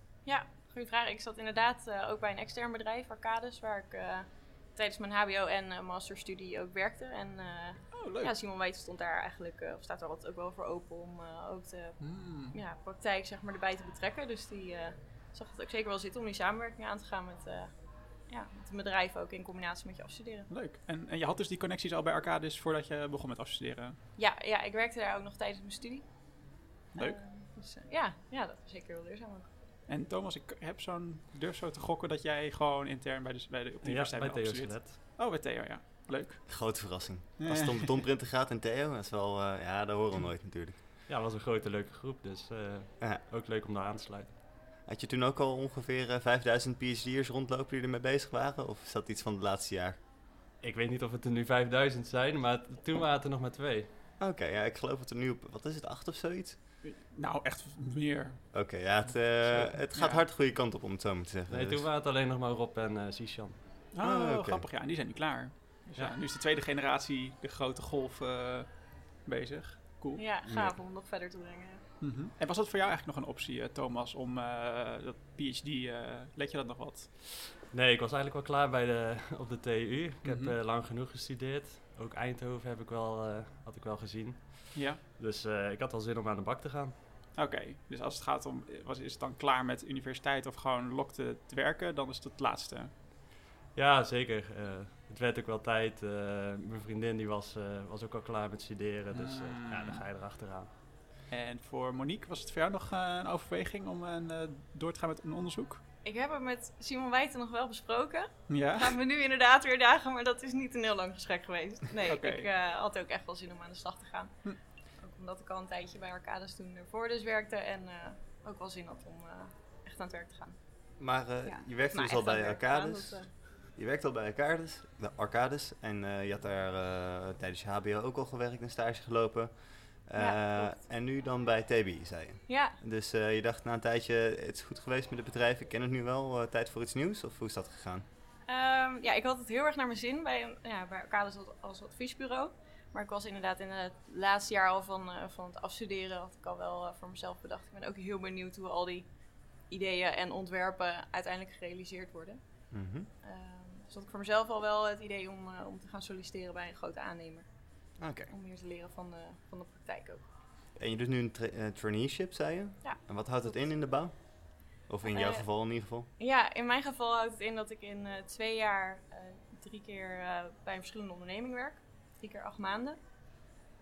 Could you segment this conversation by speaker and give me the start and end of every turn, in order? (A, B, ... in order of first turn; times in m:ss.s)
0:00.2-0:20.5 A
0:07.9-0:08.3 B
0:12.0-0:12.6 B
0:20.5-0:24.0 B
0:24.2-0:29.6 A
0:29.9-0:36.7 B
0:33.8-0:35.0 C
0:36.5-0:40.8 D
0:37.4-0:37.8 B
0:41.1-0:44.3 C
0:44.8-0:50.0 D
0:50.6-0:53.9 C
0:54.2-0:56.6 D
0:56.8-1:00.2 B
0:58.5-1:01.9 D
1:01.5-1:03.8 C
1:03.9-1:10.2 B
1:04.0-1:04.6 D
1:10.2-1:11.8 A
1:10.4-1:10.8 D
1:12.0-1:17.1 B
1:17.6-1:27.0 C
1:20.2-1:20.6 B
1:24.7-1:25.0 B
1:27.3-1:32.9 B
1:33.7-1:40.7 C
1:39.1-1:40.0 B
1:41.3-1:45.8 B
1:46.0-2:03.3 A
1:48.5-1:48.9 B
1:52.1-1:52.5 B
2:01.0-2:18.0 D
2:10.2-2:10.8 A
2:12.5-2:12.8 A
2:18.4-2:40.2 A
2:32.7-2:33.1 D
2:38.0-2:38.3 D
2:40.8-2:46.1 D
2:42.8-2:43.5 A
2:45.0-2:45.5 A
2:46.2-2:53.4 A